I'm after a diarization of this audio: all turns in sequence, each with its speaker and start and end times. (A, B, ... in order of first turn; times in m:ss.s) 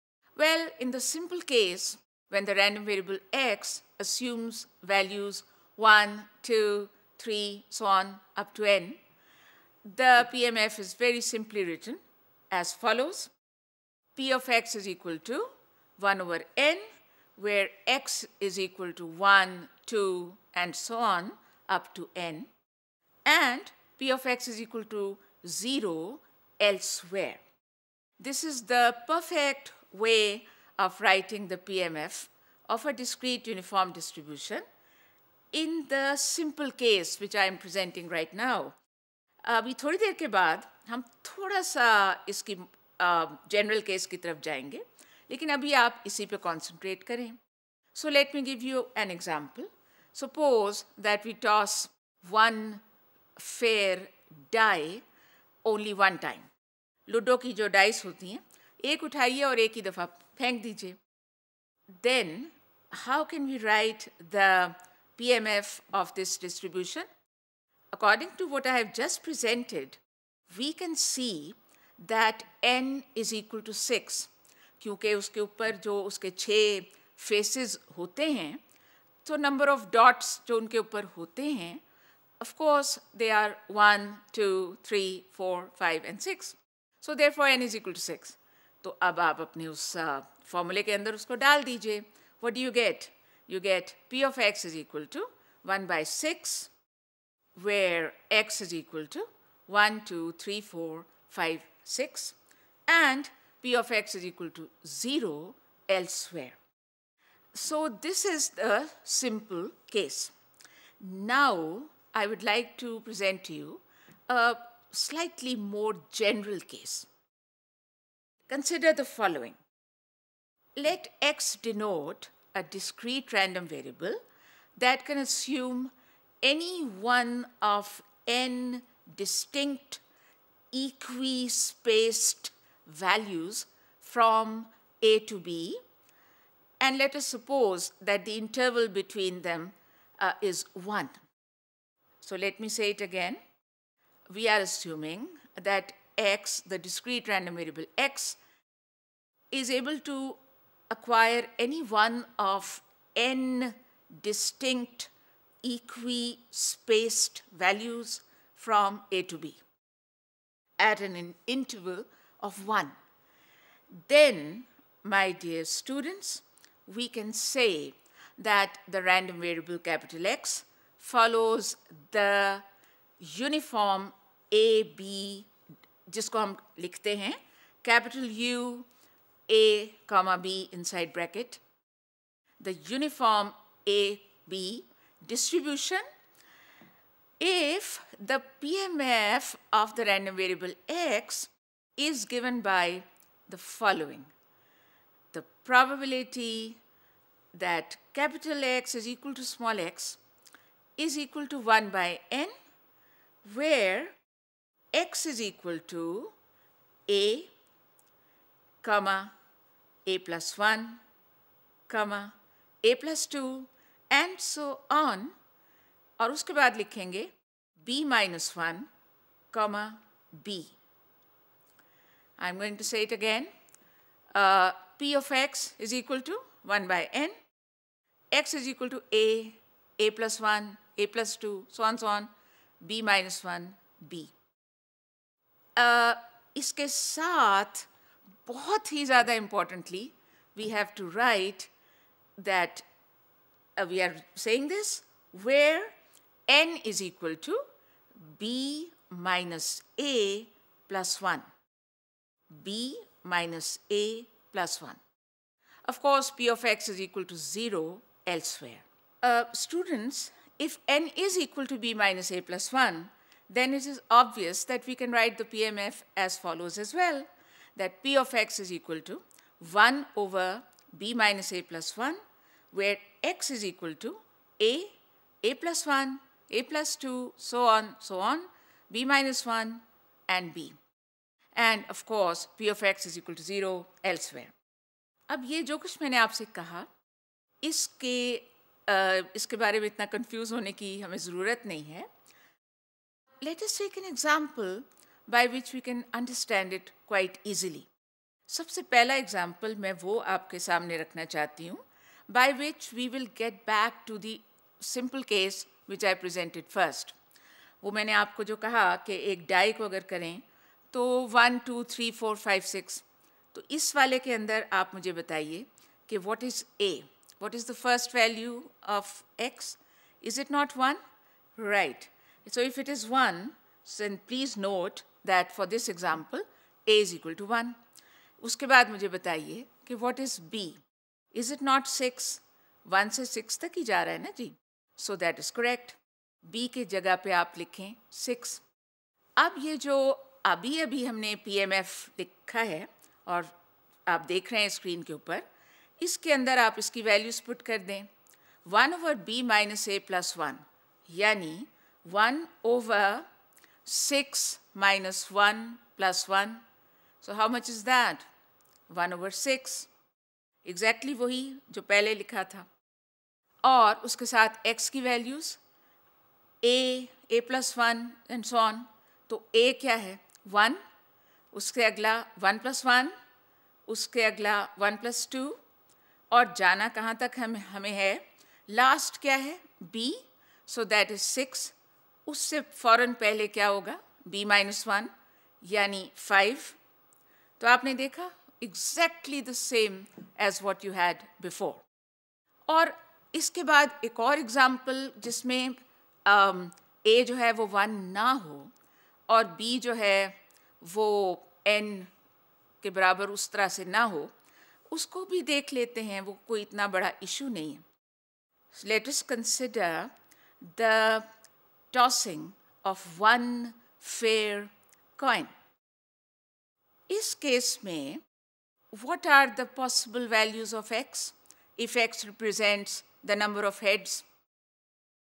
0:00.4-0:09.0 A
0:09.8-0:13.3 A
0:14.1-0:16.8 A
0:17.4-0:22.5 A
0:23.2-0:27.4 A
0:28.2-0:34.6 A
0:35.5-0:38.8 A
0:39.4-0:47.4 A
0:47.9-0:52.8 A
0:53.4-0:55.0 A
0:55.6-0:56.5 A
0:57.1-1:01.0 A
1:01.9-1:07.0 A
1:07.9-1:10.0 A
1:10.5-1:18.6 A
1:19.2-1:21.8 A
1:22.4-1:36.7 A
1:37.6-1:42.4 A
1:42.9-1:46.6 A
1:47.5-1:50.3 A
1:51.0-1:57.1 A
1:58.5-1:59.6 A
2:00.8-2:04.2 A
2:04.8-2:10.0 A
2:10.7-2:15.8 A
2:16.8-2:21.2 A
2:22.2-2:23.4 A
2:24.3-2:28.4 A
2:29.5-2:35.1 A
2:35.6-2:39.6 A
2:40.8-2:42.9 A
2:44.0-2:52.6 A
2:53.2-2:55.5 A
2:56.1-2:58.9 A
2:59.5-3:01.6 A
3:02.6-3:06.0 A
3:07.4-3:14.3 A
3:15.3-3:16.8 A
3:17.5-3:20.2 A
3:21.0-3:22.5 A
3:23.4-3:24.1 A
3:24.9-3:26.3 A
3:27.1-3:27.5 A
3:28.8-3:29.3 A
3:30.0-3:31.0 A
3:31.9-3:35.3 A
3:36.2-3:38.9 A
3:39.5-3:40.8 A
3:42.4-3:43.5 A
3:44.3-3:47.3 A
3:48.3-3:54.3 A
3:55.8-3:57.9 A
3:58.4-4:01.7 A
4:02.4-4:02.8 A
4:03.8-4:05.9 A
4:06.5-4:07.6 A
4:08.2-4:11.5 A
4:12.5-4:15.0 A
4:15.8-4:32.2 A
4:32.7-4:40.8 A
4:41.5-4:44.5 A
4:45.3-4:46.9 A
4:47.6-4:52.1 A
4:53.4-4:57.9 A
4:58.5-5:07.1 A
5:07.8-5:21.0 A
5:21.6-5:27.8 A
5:28.4-5:38.6 A
5:39.4-5:43.5 A
5:44.1-5:45.4 A
5:46.0-5:48.1 A
5:48.6-5:53.2 A
5:53.8-5:56.6 A
5:57.2-5:58.3 A
5:58.9-5:59.9 A
6:00.6-6:02.7 A
6:03.6-6:05.6 A
6:06.6-6:10.8 A
6:11.5-6:13.1 A
6:13.9-6:15.6 A
6:16.3-6:21.7 A
6:22.2-6:26.8 A
6:27.6-6:31.8 A
6:32.7-6:38.7 A
6:39.3-6:42.1 A
6:42.8-6:44.3 A
6:44.9-6:47.8 A
6:48.7-6:50.1 A
6:50.6-6:51.3 A
6:51.9-6:55.5 A
6:57.1-6:58.2 A
6:58.9-7:04.2 A